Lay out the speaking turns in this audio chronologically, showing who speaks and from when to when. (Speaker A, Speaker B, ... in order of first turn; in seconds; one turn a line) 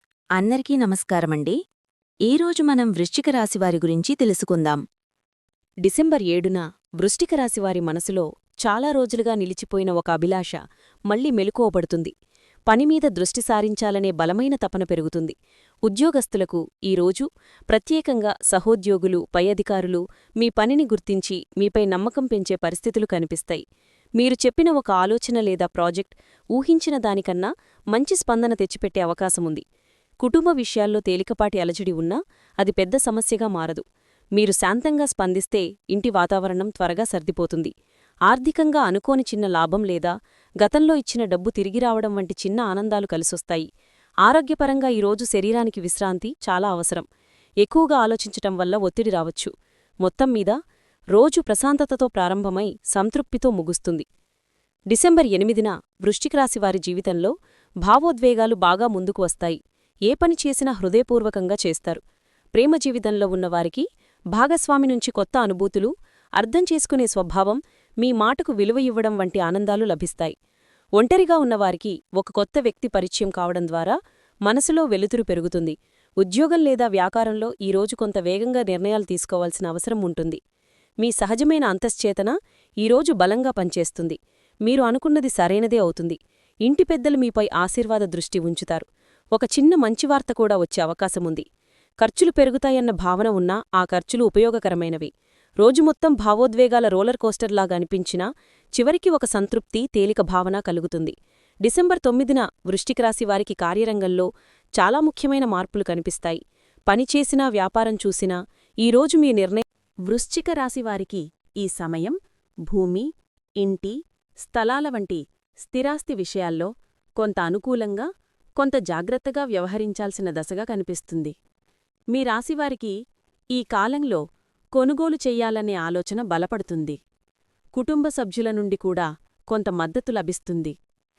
Speaker A: 0.4-1.5
Speaker A: 2.3-4.8
Speaker A: 5.9-6.5
Speaker B: 7.0-10.5
Speaker A: 7.1-8.1
Speaker B: 11.1-12.1
Speaker B: 12.7-15.3
Speaker B: 15.9-23.6
Speaker B: 24.2-26.0
Speaker B: 26.5-29.6
Speaker A: 28.2-28.8
Speaker B: 30.2-33.8
Speaker B: 34.4-37.7
Speaker B: 38.3-40.0
Speaker A: 39.0-39.3
Speaker B: 40.6-43.6
Speaker A: 43.0-43.5
Speaker B: 44.2-47.0
Speaker B: 47.6-49.5
Speaker B: 50.0-50.5
Speaker B: 51.1-54.0
Speaker B: 54.9-57.3
Speaker B: 57.9-59.5
Speaker B: 60.1-62.0
Speaker B: 62.5-63.8
Speaker B: 64.4-65.9
Speaker B: 66.4-70.3
Speaker B: 71.0-73.9
Speaker B: 74.5-80.4
Speaker B: 81.0-88.8
Speaker B: 89.3-91.4
Speaker B: 92.0-95.0
Speaker B: 95.6-98.2
Speaker B: 98.8-101.1
Speaker B: 101.6-104.2
Speaker B: 104.8-106.4
Speaker B: 106.9-112.2
Speaker A: 109.1-109.3
Speaker B: 112.7-113.1
Speaker B: 113.6-121.3
Speaker B: 122.1-122.9
Speaker B: 123.5-124.2
Speaker B: 124.7-127.0
Speaker B: 127.7-130.7